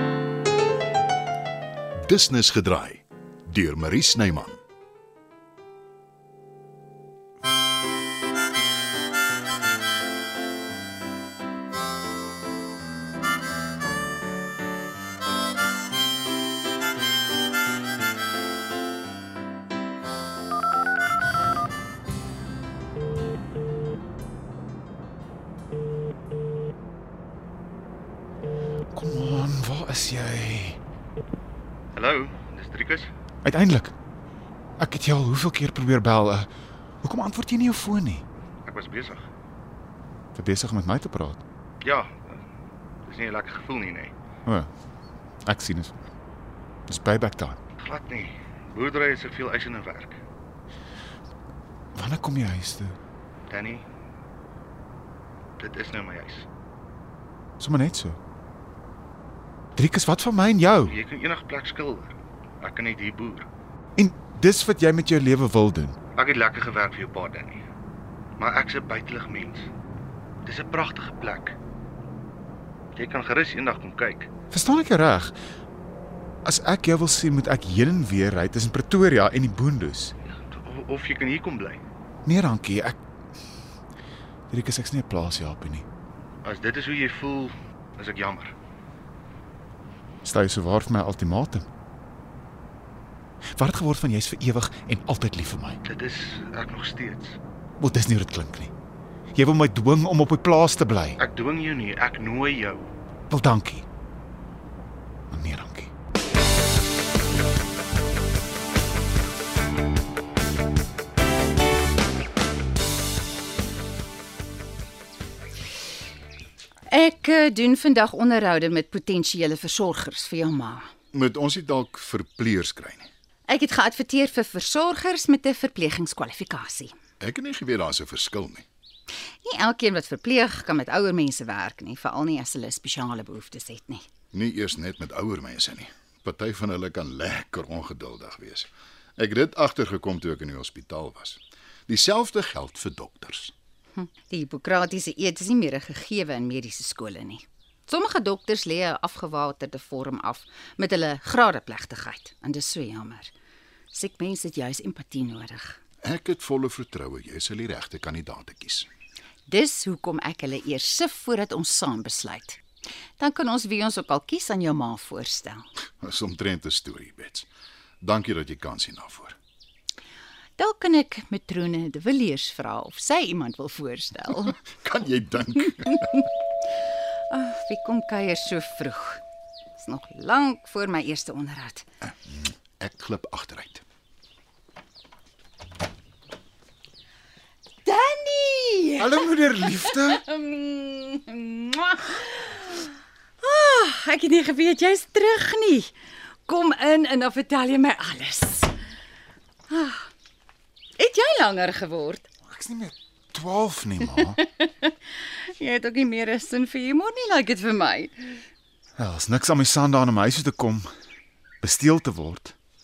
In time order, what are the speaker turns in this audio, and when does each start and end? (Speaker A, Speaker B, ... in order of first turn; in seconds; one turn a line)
Speaker A: 2.0-4.6
Speaker B: 28.9-30.8
Speaker C: 31.9-33.1
Speaker B: 33.4-33.9
Speaker B: 34.8-36.5
Speaker B: 37.0-38.2
Speaker C: 38.6-39.3
Speaker B: 40.3-41.4
Speaker C: 41.8-42.4
Speaker C: 43.0-44.1
Speaker B: 45.5-45.9
Speaker B: 46.9-47.6
Speaker C: 47.8-50.2
Speaker B: 51.9-53.0
Speaker C: 53.5-53.8
Speaker C: 55.6-56.5
Speaker B: 57.6-58.2
Speaker B: 59.8-61.0
Speaker C: 60.9-63.5
Speaker B: 64.0-66.0
Speaker C: 66.1-67.6
Speaker C: 68.4-69.7
Speaker C: 70.4-71.5
Speaker C: 72.9-74.3
Speaker B: 74.5-75.3
Speaker B: 76.4-80.1
Speaker C: 80.3-81.8
Speaker B: 82.2-83.0
Speaker B: 84.5-85.8
Speaker C: 86.4-88.5
Speaker B: 90.2-91.7
Speaker B: 93.5-95.8
Speaker C: 95.8-97.4
Speaker B: 97.8-98.7
Speaker B: 99.3-101.2
Speaker C: 101.2-102.8
Speaker B: 103.3-103.8
Speaker B: 105.3-105.9
Speaker D: 116.9-120.9
Speaker A: 121.1-123.1
Speaker D: 123.5-126.9
Speaker A: 127.2-128.7
Speaker D: 129.4-134.1
Speaker A: 134.3-143.5
Speaker D: 143.9-153.3
Speaker D: 153.9-155.8
Speaker A: 156.0-158.9
Speaker D: 159.5-162.6
Speaker D: 163.2-165.6
Speaker A: 166.0-167.5
Speaker A: 168.0-169.4
Speaker D: 170.6-174.6
Speaker A: 174.6-176.2
Speaker D: 177.3-179.2
Speaker D: 179.8-181.9
Speaker A: 182.1-183.8
Speaker D: 187.8-192.9
Speaker B: 189.0-190.2
Speaker D: 193.4-195.9
Speaker D: 196.4-198.7
Speaker D: 199.7-200.1
Speaker D: 201.0-202.3
Speaker B: 202.4-204.4
Speaker D: 204.3-208.4
Speaker B: 209.0-210.9
Speaker B: 211.6-212.5